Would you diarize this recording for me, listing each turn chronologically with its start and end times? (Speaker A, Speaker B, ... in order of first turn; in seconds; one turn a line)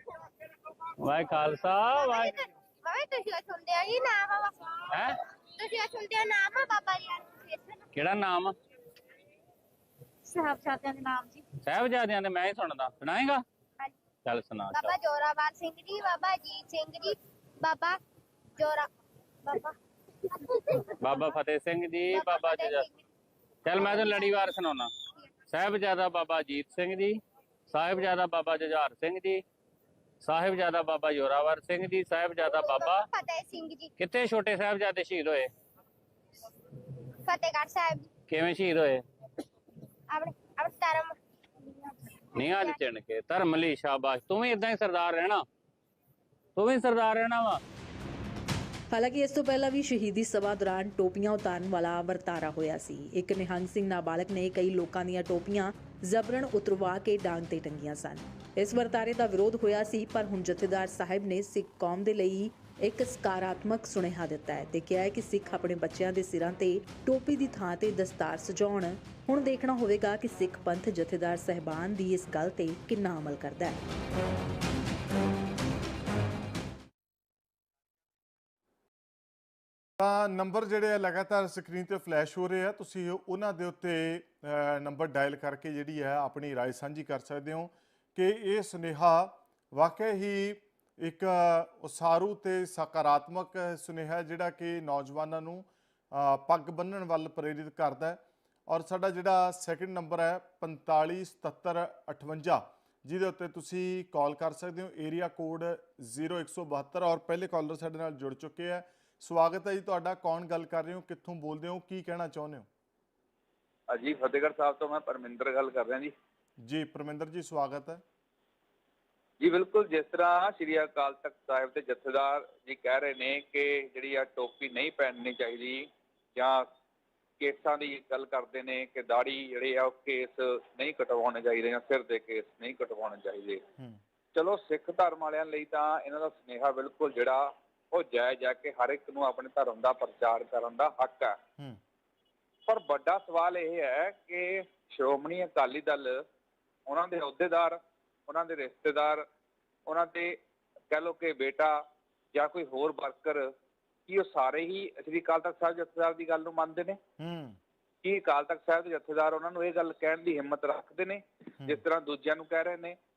Speaker A: 1.0-2.4
Speaker B: 1.9-7.8
Speaker A: 7.9-8.5
Speaker B: 10.3-11.4
Speaker A: 11.6-13.4
Speaker A: 14.2-14.9
Speaker B: 14.7-18.0
Speaker B: 18.6-18.9
Speaker B: 19.4-19.7
Speaker B: 20.4-21.4
Speaker A: 21.0-22.9
Speaker B: 22.1-23.0
Speaker A: 23.6-24.9
Speaker B: 23.8-24.6
Speaker A: 25.5-27.2
Speaker A: 27.7-29.4
Speaker A: 30.2-33.1
Speaker B: 32.5-33.9
Speaker A: 34.0-35.5
Speaker B: 37.2-38.1
Speaker A: 38.3-39.0
Speaker B: 40.1-41.1
Speaker A: 42.4-45.4
Speaker A: 46.6-47.6
Speaker C: 48.9-73.8
Speaker D: 80.0-112.7
Speaker E: 113.9-116.1
Speaker D: 116.6-118.0
Speaker E: 119.4-126.6
Speaker E: 127.4-133.6
Speaker E: 134.3-141.4
Speaker E: 142.7-146.2
Speaker E: 146.9-149.2
Speaker E: 149.9-150.4
Speaker E: 150.9-151.8
Speaker E: 152.3-153.5
Speaker E: 154.1-157.0
Speaker D: 157.2-157.6
Speaker E: 158.0-163.0